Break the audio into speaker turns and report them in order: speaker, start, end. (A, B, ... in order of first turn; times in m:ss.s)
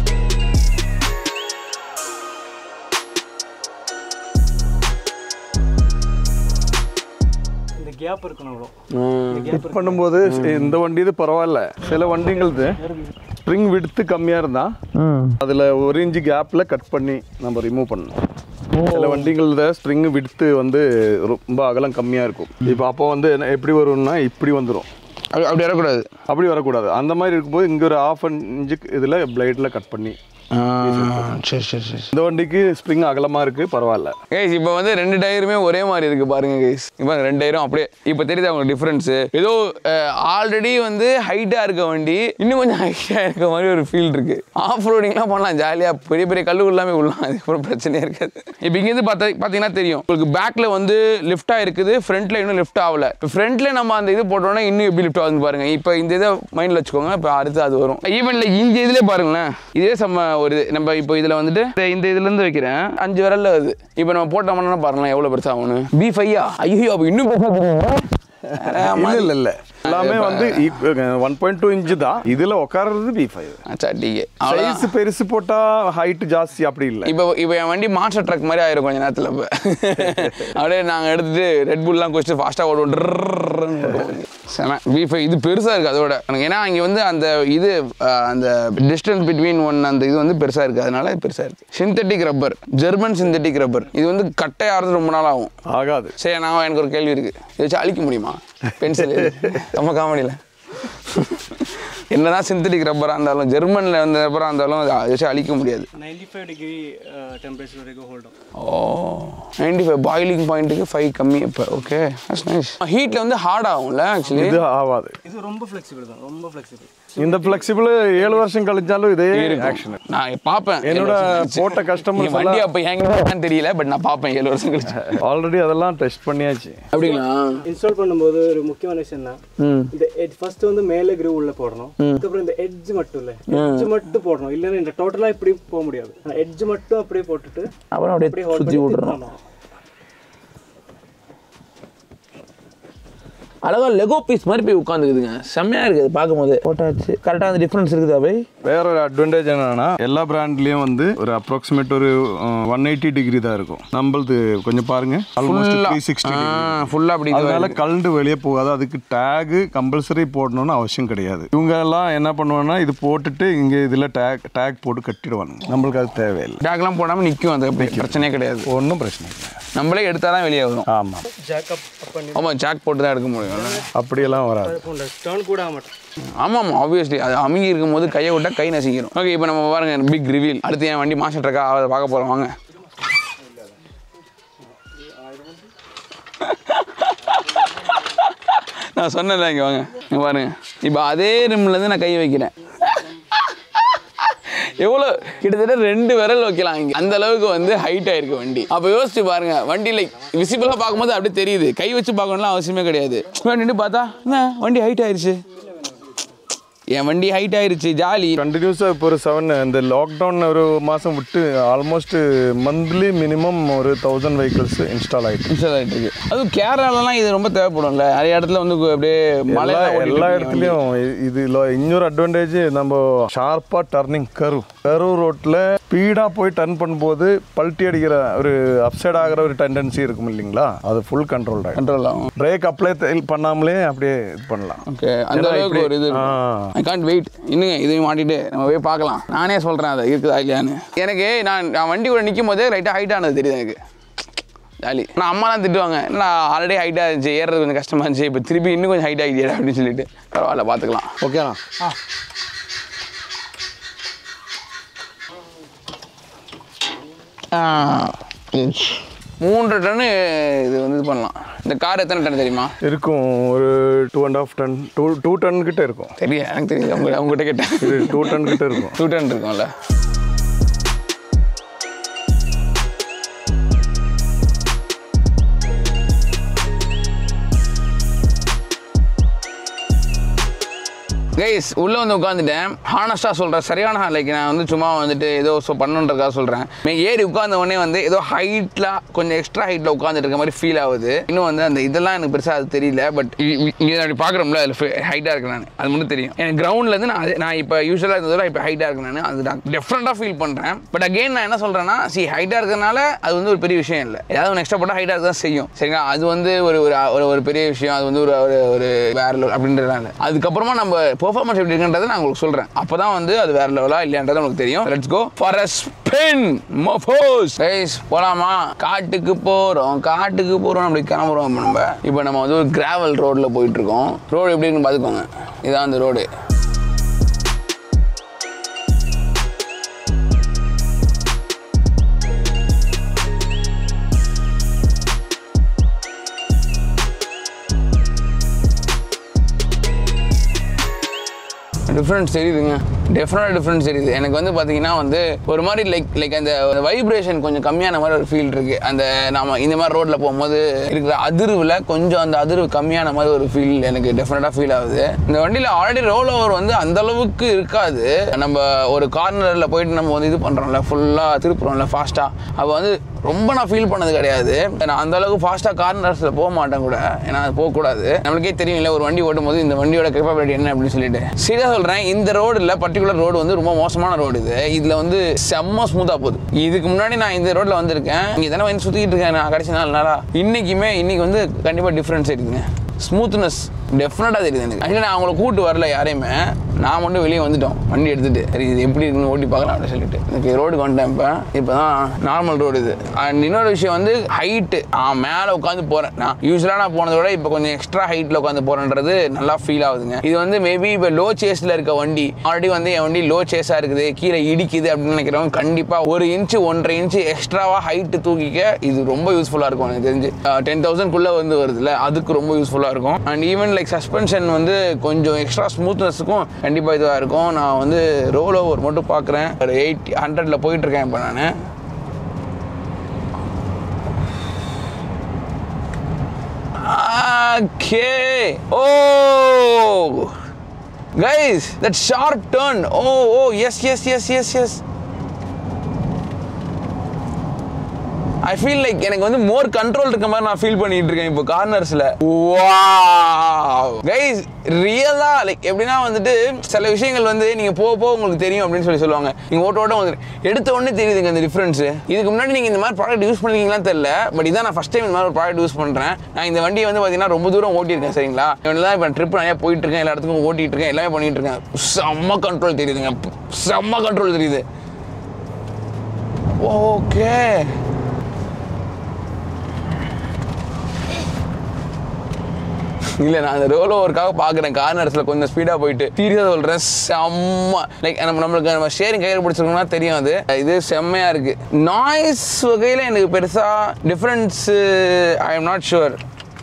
0:07.8-0:08.7 A
0:08.9-0:09.6 B
0:09.3-0:10.1 A
0:09.5-0:12.8 C
0:10.2-0:10.8 B
0:11.9-0:13.1 A
0:13.4-0:14.8 C
0:14.9-0:15.4 B
0:15.4-0:18.2 C
0:18.7-0:19.3 B
0:18.8-0:24.9 C
0:25.3-0:26.1 B
0:26.3-0:30.2 C
0:30.5-0:32.1 B
0:30.8-0:31.4 C
0:32.1-0:34.2 C
0:34.3-1:09.3 B
1:08.5-1:13.6 C
1:09.8-1:10.8 B
1:13.6-1:14.9 B
1:14.4-1:17.1 C
1:17.0-1:35.5 B
1:20.0-1:20.5 C
1:35.6-1:36.1 C
1:36.2-1:45.9 B
1:39.0-1:39.6 C
1:45.9-1:48.3 A
1:48.6-1:54.6 B
1:54.3-1:55.2 C
1:55.2-1:58.4 A
1:57.2-2:00.0 C
1:59.3-2:05.2 B
2:00.8-2:02.7 C
2:04.9-2:06.8 C
2:06.9-2:07.6 B
2:07.0-2:09.4 A
2:09.6-2:09.9 B
2:09.9-2:17.7 A
2:13.5-2:13.9 B
2:17.9-2:19.2 B
2:18.3-2:19.4 A
2:23.6-2:28.4 B
2:28.6-2:46.6 C
2:35.4-2:37.8 B
2:46.6-2:48.7 B
2:47.8-2:49.6 C
2:49.7-2:50.9 B
2:50.9-2:51.3 C
2:51.3-2:52.5 A
2:52.3-2:53.8 B
2:53.5-2:53.9 A
2:53.9-2:54.8 C
2:54.6-2:55.9 A
2:56.4-3:02.5 B
3:05.0-3:05.7 A
3:06.4-3:25.4 B
3:26.9-3:28.4 B
3:28.4-3:35.5 C
3:35.5-3:40.8 B
3:39.5-3:51.8 C
3:51.7-3:52.3 B
3:52.3-3:56.7 C
3:54.8-4:03.8 B
4:04.8-4:11.2 B
4:11.2-4:11.6 C
4:17.5-4:22.7 B
4:22.8-4:26.1 C
4:26.2-4:29.7 B
4:27.8-4:29.0 C
4:41.4-5:26.3 B
5:41.9-7:01.5 B
7:06.8-7:10.4 B
7:11.2-7:14.8 B
7:18.4-7:44.6 B
7:46.6-7:47.8 B
7:53.2-8:06.2 B